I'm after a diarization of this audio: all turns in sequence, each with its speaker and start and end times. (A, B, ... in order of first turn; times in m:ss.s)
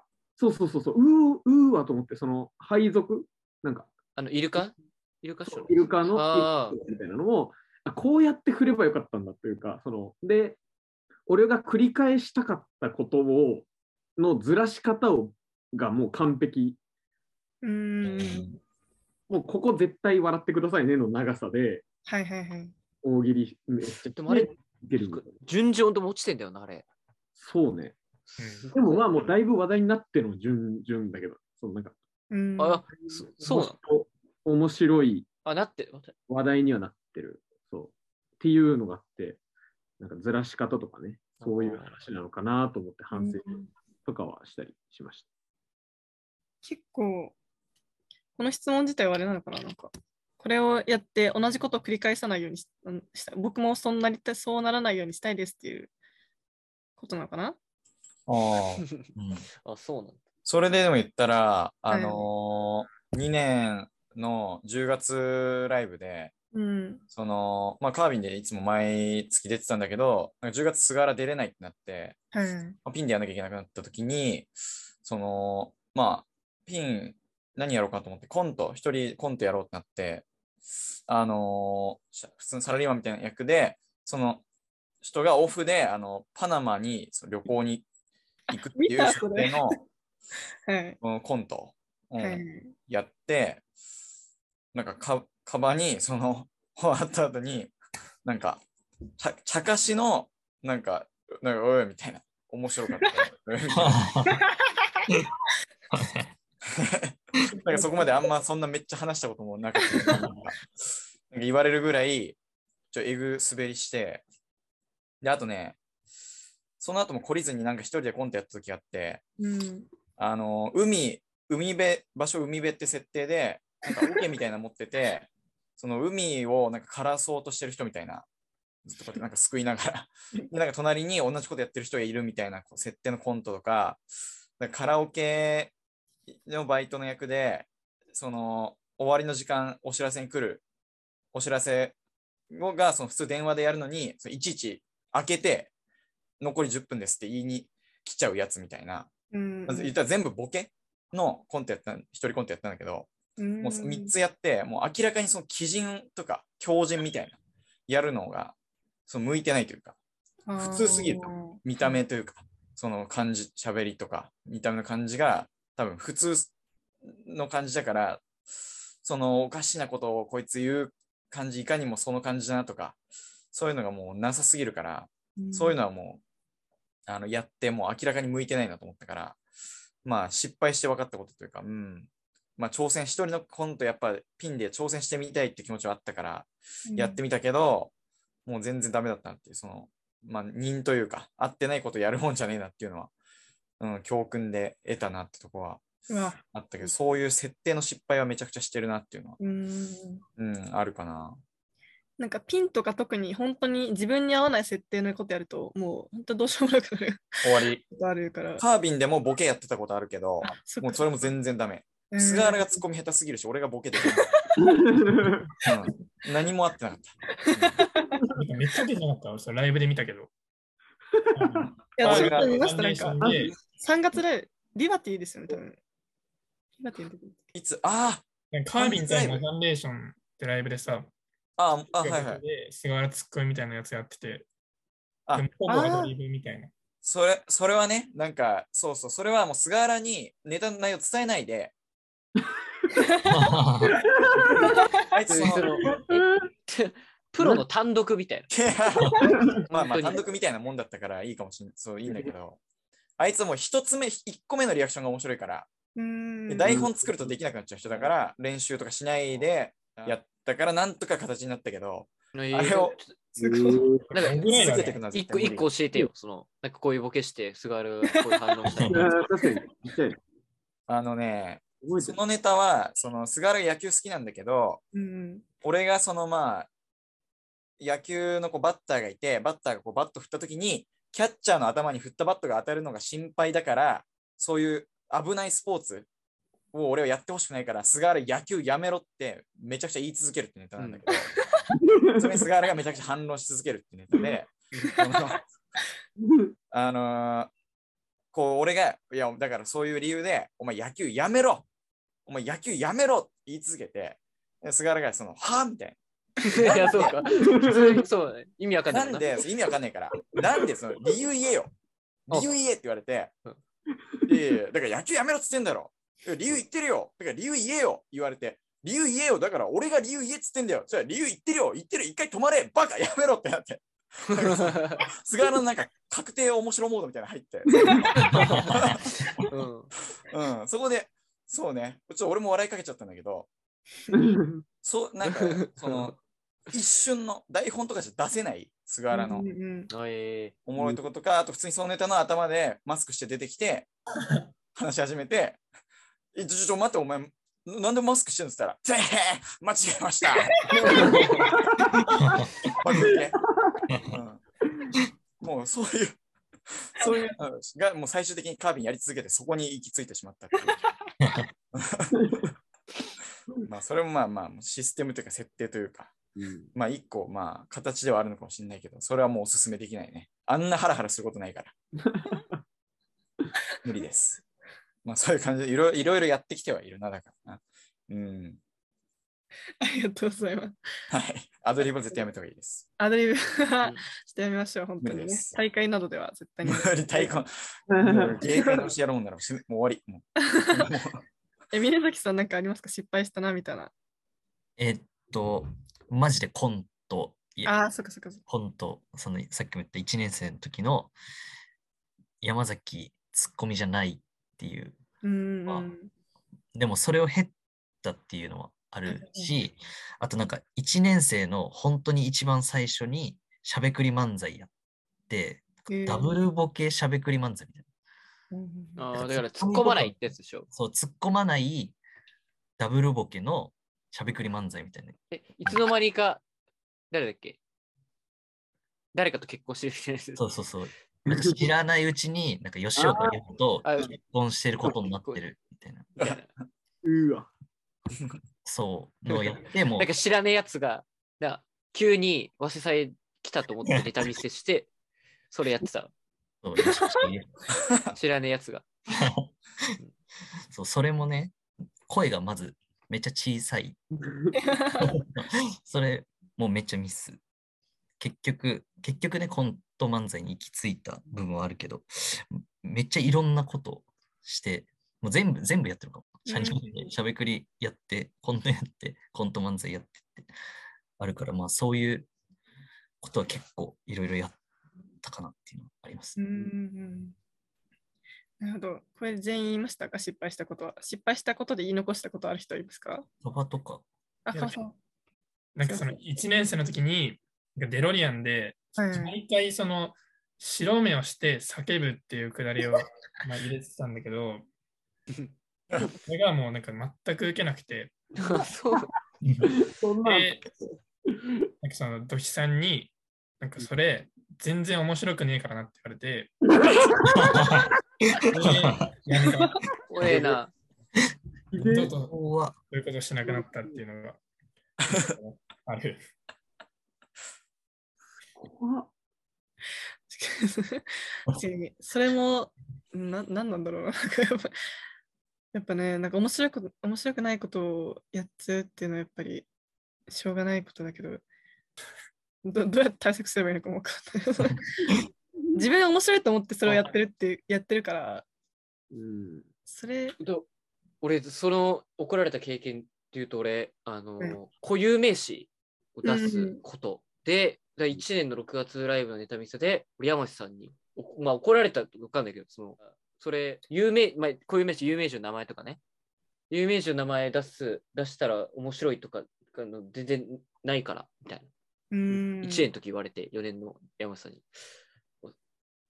0:00.4-0:03.9 A
0:04.2-0:06.8 B
0:05.5-0:10.6 A
0:11.3-0:13.7 A
0:14.2-0:16.8 A
0:17.6-0:18.5 C
0:18.0-0:18.6 D
0:19.3-0:21.8 A
0:22.1-0:22.8 C
0:23.0-0:25.4 A
0:24.0-0:26.8 B
0:27.4-0:28.0 A
0:28.3-0:29.0 B
0:28.4-0:28.7 E
0:28.7-0:32.0 A
0:32.3-0:32.8 C
0:32.6-0:33.8 B
0:33.0-0:35.3 A
0:35.4-0:36.2 B
0:36.3-0:39.4 A
0:40.0-0:45.3 A
0:41.4-0:42.0 B
0:43.1-0:43.7 C
0:46.6-0:47.4 C
0:48.4-0:55.9 C
0:57.0-0:57.6 C
0:58.3-0:58.8 D
0:59.2-0:59.5 F
0:59.6-1:00.2 B
1:00.5-1:06.3 D
1:01.9-1:02.3 C
1:06.5-1:07.0 C
1:07.1-1:12.2 D
1:12.3-1:12.8 C
1:12.8-1:14.5 D
1:15.0-1:20.3 D
1:21.1-1:24.4 D
1:25.0-1:27.9 D
1:28.5-1:29.8 D
1:28.7-1:29.7 C
1:30.7-1:31.0 C
1:31.0-1:33.6 D
1:32.2-1:32.7 C
1:34.7-1:38.6 D
1:39.2-1:44.1 D
1:43.7-1:44.4 F
1:44.3-1:44.8 C
1:45.9-1:46.3 F
1:46.7-1:50.7 D
1:47.6-1:48.3 C
1:51.3-1:52.4 D
1:52.9-1:54.2 D
1:55.2-1:55.8 D
1:56.8-1:59.2 D
1:59.4-1:59.9 C
2:00.2-2:08.3 D
2:08.9-2:14.0 D
2:14.6-2:15.7 D
2:16.4-2:20.6 D
2:21.3-2:22.0 D
2:22.5-2:25.7 D
2:26.4-2:29.1 D
2:29.3-2:30.0 C
2:29.7-2:33.1 D
2:33.4-2:34.1 C
2:33.6-2:37.4 D
2:37.9-2:38.6 D
2:39.1-2:40.0 D
2:40.5-2:42.0 C
2:40.6-2:46.5 D
2:47.1-2:48.3 D
2:49.0-2:53.0 D
2:53.5-2:56.2 D
2:55.4-2:55.8 C
2:57.1-2:59.4 D
3:00.0-3:07.9 D
3:06.9-3:07.2 C
3:08.5-3:13.1 D
3:13.8-3:15.8 D
3:16.1-3:16.9 C
3:16.5-3:19.4 D
3:19.4-3:20.2 C
3:20.4-3:21.4 D
3:22.2-3:28.6 C
3:27.4-3:27.8 D
3:28.6-3:34.4 D
3:30.4-3:31.3 C
3:32.1-3:32.8 C
3:34.2-3:34.7 C
3:34.6-3:35.5 A
3:35.6-3:37.8 D
3:37.4-3:38.2 C
3:38.4-3:40.3 E
3:41.2-3:41.7 A
3:41.4-3:43.5 E
3:42.0-3:45.8 C
3:42.0-3:42.5 D
3:43.2-3:43.6 A
3:46.8-3:47.4 C
3:47.6-3:49.4 D
3:48.5-3:51.1 E
3:51.6-3:52.4 D
3:52.0-3:54.5 E
3:55.3-3:56.7 E
3:55.7-3:56.1 C
3:57.0-4:01.8 D
4:03.3-4:04.0 F
4:03.9-4:04.8 A
4:04.6-4:05.0 C
4:05.1-4:05.8 D
4:05.3-4:08.5 B
4:05.8-4:06.4 A
4:07.4-4:07.6 A
4:08.5-4:12.6 D
4:09.2-4:09.6 A
4:09.7-4:10.2 B
4:12.0-4:12.3 A
4:13.2-4:15.7 D
4:16.0-4:16.8 C
4:16.5-4:23.7 D
4:16.6-4:17.4 A
4:22.3-4:23.2 B
4:23.4-4:24.2 A
4:24.1-4:25.0 E
4:24.1-4:24.4 B
4:24.2-4:25.7 D
4:25.1-4:29.1 B
4:28.8-4:29.1 F
4:28.8-4:30.2 A
4:30.9-4:34.8 D
4:31.8-4:32.2 A
4:34.9-4:35.4 C
4:35.6-4:36.7 D
4:37.8-4:46.1 D
4:46.7-4:51.3 D
4:50.8-4:51.0 B
4:51.1-4:51.6 C
4:51.7-4:52.4 A
4:52.2-4:55.5 D
4:56.2-4:56.5 A
4:56.7-4:57.5 D
4:58.3-5:01.7 D
5:02.3-5:07.2 D
5:06.4-5:09.3 B
5:07.3-5:08.0 A
5:08.9-5:11.7 D
5:12.3-5:13.3 D
5:14.3-5:29.1 D
5:24.4-5:25.0 B
5:28.2-5:29.0 F
5:28.4-5:28.9 B
5:29.4-5:29.9 B
5:30.3-5:33.5 D
5:34.2-5:34.6 A
5:34.8-5:39.5 D
5:35.2-5:36.1 B
5:39.1-5:39.9 C
5:39.9-5:40.6 B
5:40.7-5:43.9 D
5:44.8-5:45.6 D
5:46.3-5:51.2 D
5:50.7-5:51.6 A
5:52.2-5:52.5 F
5:52.8-5:53.4 D
5:53.1-5:53.8 A
5:53.9-5:54.2 F
5:54.1-5:54.4 D
5:55.4-5:56.2 D
5:56.8-6:00.9 D
5:57.0-5:57.3 C
6:01.2-6:01.5 F
6:01.7-6:02.4 D
6:03.7-6:06.2 D
6:06.4-6:06.7 A
6:06.7-6:11.7 D
6:12.0-6:12.6 A
6:13.8-6:14.4 D
6:15.0-6:18.6 D
6:19.8-6:20.8 C
6:21.1-6:22.9 D
6:23.0-6:27.3 C
6:25.0-6:25.6 D
6:26.6-6:31.2 D
6:27.9-6:28.9 A
6:30.5-6:30.9 C
6:31.7-6:33.9 C
6:34.8-6:37.8 F
6:37.6-6:38.4 C
6:38.5-6:41.1 F
6:42.4-6:45.0 F
6:45.2-6:46.1 C
6:46.8-6:54.7 F
6:49.1-6:49.5 C
6:55.3-6:57.8 F
6:55.9-6:56.4 C
6:58.5-6:59.0 C
6:59.0-7:00.7 B
6:59.1-7:00.2 F
7:00.7-7:02.0 F
7:02.8-7:05.9 F
7:05.3-7:06.4 B
7:07.1-7:07.6 B
7:09.1-7:10.4 B
7:10.4-7:16.1 F
7:11.3-7:11.7 A
7:13.0-7:13.4 A
7:13.8-7:14.2 B
7:14.8-7:15.5 B
7:16.2-7:16.5 B
7:17.0-7:17.5 A
7:18.6-7:20.1 F
7:19.3-7:24.9 B
7:25.5-7:26.1 B
7:26.6-7:27.5 F
7:26.9-7:27.2 C
7:28.2-7:28.8 B
7:29.1-7:30.0 F
7:30.7-7:31.6 F
7:32.1-7:34.1 F
7:34.2-7:34.6 A
7:34.5-7:35.1 C
7:35.0-7:37.4 F
7:38.2-7:50.5 F
7:46.5-7:47.0 C
7:51.2-7:52.3 F
7:53.2-7:54.6 F
7:55.2-7:56.4 F
7:56.4-7:57.4 C
7:58.6-8:03.3 C
8:03.4-8:04.0 F
8:04.5-8:05.0 C
8:04.5-8:04.8 E
8:05.8-8:14.7 E
8:05.8-8:06.2 C
8:09.0-8:09.4 C
8:16.2-8:18.2 E
8:18.4-8:19.1 B
8:19.4-8:19.7 F
8:19.7-8:20.6 A
8:20.2-8:20.6 E
8:21.8-8:26.6 E
8:26.6-8:27.4 A
8:27.4-8:29.1 F
8:28.5-8:29.8 E
8:30.1-8:30.7 B
8:30.2-8:30.6 A
8:31.7-8:32.2 A
8:31.8-8:34.4 E
8:32.3-8:32.8 F
8:33.4-8:34.0 A
8:35.1-8:36.2 E
8:38.6-8:39.1 A
8:40.3-8:44.7 C
8:45.7-8:49.7 C
8:50.3-8:51.4 C
8:52.6-8:55.1 C
8:55.7-8:58.4 C
8:59.1-8:59.7 A
8:59.9-9:00.4 C
9:00.4-9:00.6 B
9:01.2-9:16.0 B
9:06.2-9:06.8 C
9:16.7-9:21.7 B
9:22.1-9:22.9 C
9:22.6-9:24.8 B